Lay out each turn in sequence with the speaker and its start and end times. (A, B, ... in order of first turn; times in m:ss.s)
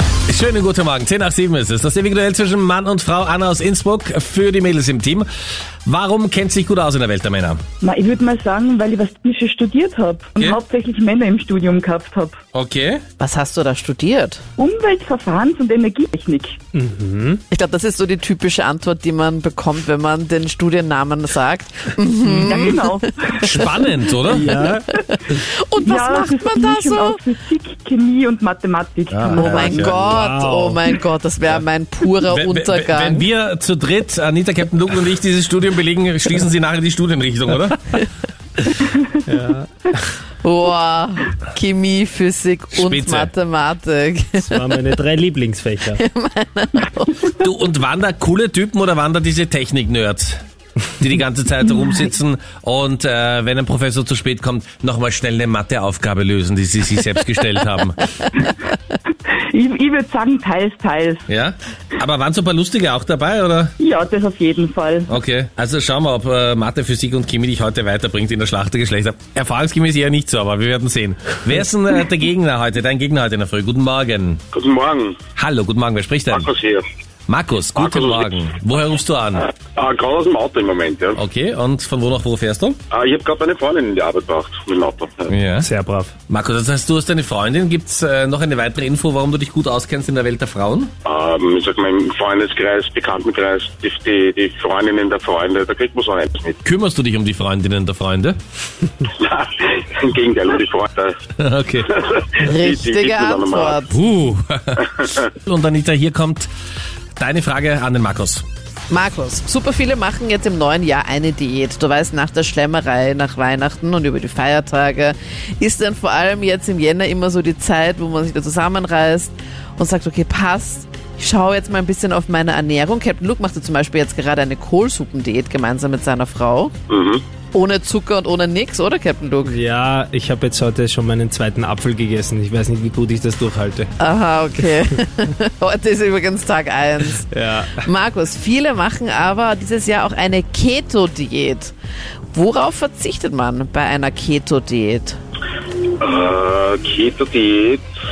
0:00.3-0:05.3 A
0:05.8-0:07.6 A
0:07.8-0:12.4 B
0:12.5-0:13.0 A
0:13.2-0:14.4 C
0:14.6-0:16.6 B
0:16.7-0:17.4 D
0:17.5-0:22.9 C
0:22.3-0:24.6 B
0:23.4-0:24.5 A
0:24.3-0:24.8 D
0:24.7-0:27.2 C
0:25.8-0:29.9 B
0:29.1-0:30.1 A
0:29.3-0:33.3 C
0:29.8-0:30.8 D
0:32.3-0:38.0 A
0:39.2-0:40.1 D
0:40.4-0:44.8 C
0:42.8-0:43.3 A
0:44.5-0:46.0 D
0:45.9-0:47.3 C
0:47.4-0:50.4 A
0:51.0-0:58.1 A
0:59.1-1:01.3 B
1:01.3-1:03.7 A
1:03.8-1:05.1 B
1:05.1-1:14.4 A
1:14.5-1:15.2 E
1:15.4-1:16.5 A
1:16.3-1:16.8 E
1:17.3-1:19.5 A
1:17.7-1:18.4 E
1:19.6-1:21.2 E
1:21.2-1:22.8 A
1:22.9-1:25.3 E
1:25.3-1:25.7 A
1:25.6-1:26.1 D
1:26.3-1:30.9 A
1:31.0-1:36.6 E
1:36.6-1:38.4 A
1:39.1-1:41.2 E
1:41.4-1:41.9 A
1:41.9-1:43.8 E
1:42.4-1:43.9 C
1:43.9-1:46.5 A
1:47.2-1:48.4 A
1:48.9-2:06.7 C
2:06.9-2:07.2 E
2:07.5-2:09.6 C
2:09.4-2:13.9 D
2:14.0-2:21.7 C
2:17.2-2:17.8 D
2:22.3-2:25.2 C
2:26.0-2:27.8 E